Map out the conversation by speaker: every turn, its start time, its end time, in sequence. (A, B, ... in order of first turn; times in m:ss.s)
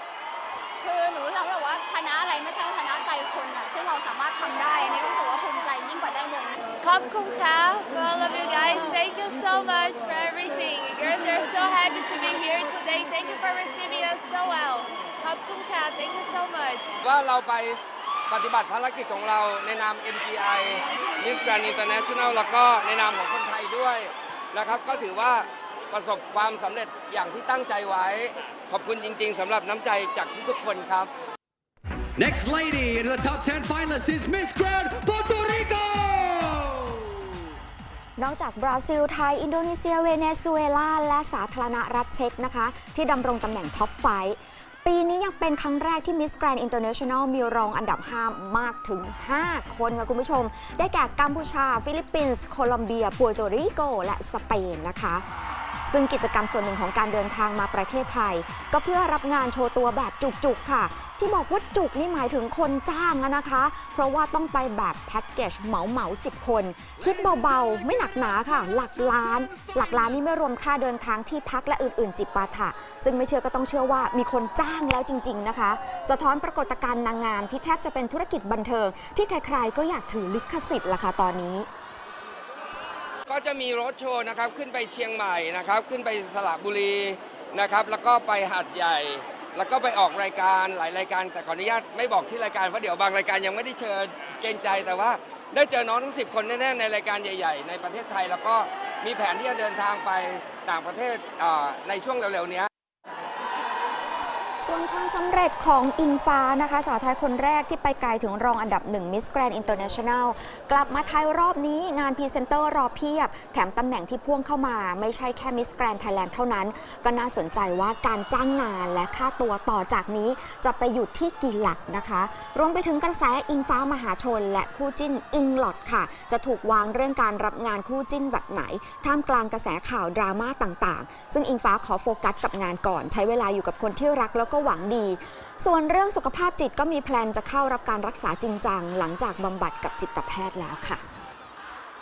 0:00.8-0:06.7 A
0:06.8-0:16.9 B
0:17.0-0:31.1 C
0:32.2-0:37.2 D
0:38.2-0:55.2 E
0:55.9-1:21.7 E
1:23.3-1:42.7 C
1:44.6-2:21.0 E